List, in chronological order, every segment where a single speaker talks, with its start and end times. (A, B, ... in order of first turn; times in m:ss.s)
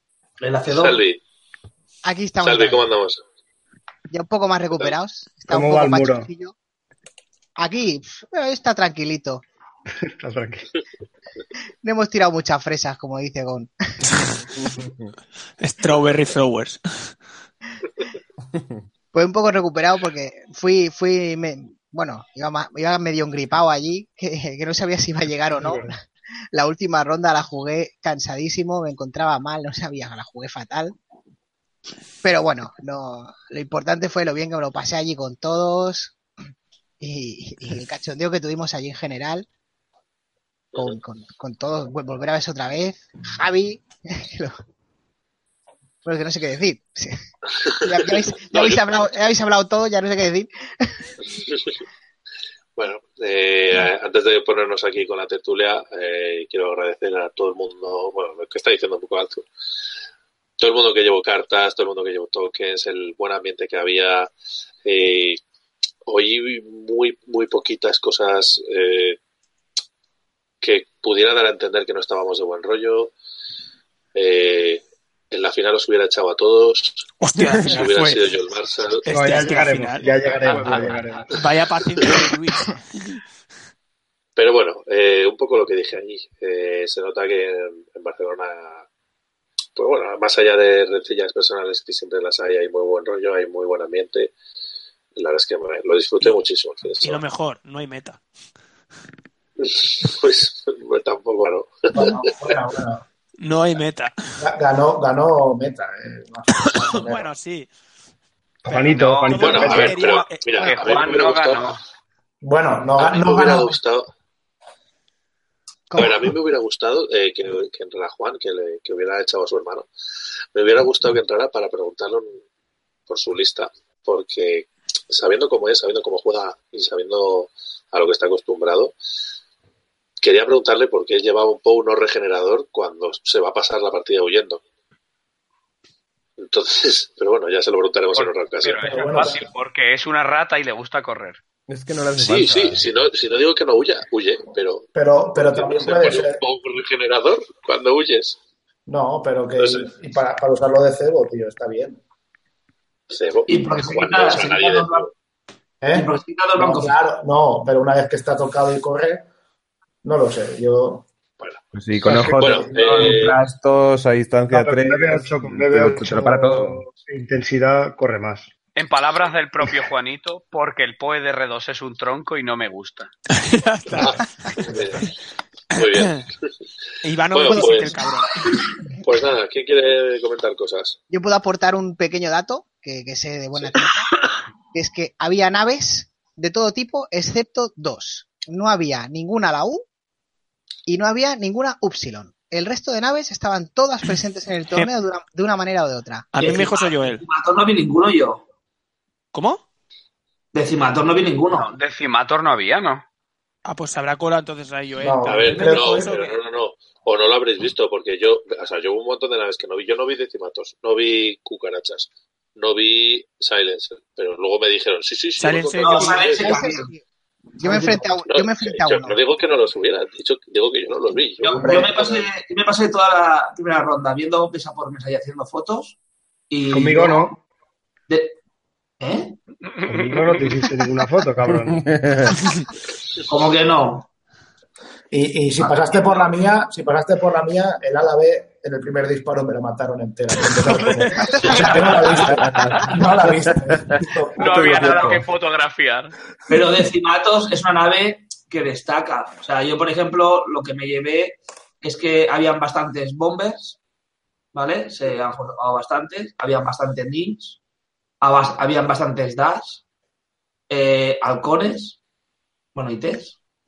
0:00.4-0:01.0 A
0:00.7-0:01.2 B
0:02.0-0:02.9 C
0:02.4-0:03.2 B
0:04.1-0:06.5 C
0:05.5-0:06.3 D
0:07.6-0:09.4 C
0:10.0-0:10.7 D
0:11.8-0:13.7 C
0:14.6-0:14.9 E
0:15.6-0:16.8 F
0:19.1-0:26.0 C
0:25.6-0:25.9 D
0:26.5-0:31.0 C
0:32.2-0:36.2 C
0:37.0-0:39.5 C
0:40.8-0:44.6 C
0:46.0-0:47.2 C
0:47.8-0:51.0 C
0:47.9-0:48.8 B
0:51.3-0:51.8 B
0:52.8-0:59.5 B
1:00.6-1:04.3 B
1:04.8-1:05.4 B
1:06.1-1:09.2 B
1:10.6-1:13.1 B
1:14.2-1:17.0 B
1:17.2-1:18.2 F
1:17.6-1:19.0 B
1:19.0-1:23.2 F
1:19.1-1:21.3 D
1:20.4-1:21.3 G
1:24.4-1:28.8 B
1:29.8-1:34.3 B
1:35.2-1:37.2 B
1:37.0-1:38.2 F
1:39.6-1:42.2 B
1:41.9-1:43.0 H
1:43.4-1:44.1 F
1:44.4-1:47.3 H
1:46.8-1:47.7 F
1:48.6-1:49.9 D
1:48.7-1:51.8 G
1:49.2-1:50.8 F
1:49.4-1:51.7 B
1:52.4-1:53.8 H
1:53.0-1:54.1 B
1:55.9-1:56.3 C
1:56.0-1:59.9 B
2:00.5-2:02.3 B
2:03.1-2:08.9 B
2:10.2-2:14.6 B
2:16.4-2:19.0 B
2:18.1-2:21.4 G
2:18.8-2:19.5 H
2:21.7-2:22.9 E
2:22.2-2:28.4 B
2:25.0-2:26.4 H
2:28.9-2:32.0 H
2:29.6-2:29.9 B
2:33.1-2:35.1 B
2:33.5-2:35.1 A
2:35.8-2:39.3 H
2:35.9-2:36.9 A
2:40.0-2:41.1 H
2:41.7-2:46.8 E
2:42.0-2:42.4 D
2:42.4-2:43.1 H
2:42.4-2:43.4 B
2:44.5-2:48.5 D
2:48.8-2:53.1 G
2:53.4-2:54.2 F
2:54.0-2:55.0 B
2:55.7-2:56.2 B
2:55.8-2:56.2 F
2:57.0-2:58.3 F
2:57.3-2:58.1 B
2:59.0-3:01.0 B
3:01.1-3:04.1 C
3:04.7-3:09.8 C
3:10.9-3:16.4 C
3:16.3-3:17.2 F
3:16.4-3:18.4 A
3:19.3-3:19.6 F
3:20.5-3:21.7 A
3:21.6-3:23.0 G
3:23.6-3:26.4 F
3:25.0-3:26.1 H
3:25.3-3:36.7 B
3:35.4-3:36.2 F
3:35.8-3:36.9 A
3:36.2-3:37.0 C
3:37.6-3:39.2 C
3:37.6-3:38.1 A
3:38.3-3:42.3 B
3:41.4-3:46.0 A
3:46.5-3:47.4 A
3:46.7-3:47.4 D
3:48.1-3:48.4 A
3:49.0-3:49.4 A
3:49.8-3:50.5 G
3:49.8-3:51.9 D
3:51.7-3:52.4 E
3:53.3-3:54.1 A
3:55.1-4:05.2 H
4:00.6-4:02.9 F
4:01.5-4:02.4 A
4:02.3-4:02.8 E
4:03.7-4:05.2 E
4:04.4-4:06.1 G
4:06.5-4:13.8 A
4:14.5-4:17.6 A
4:18.2-4:19.8 A
4:20.7-4:22.0 A
4:22.8-4:23.4 A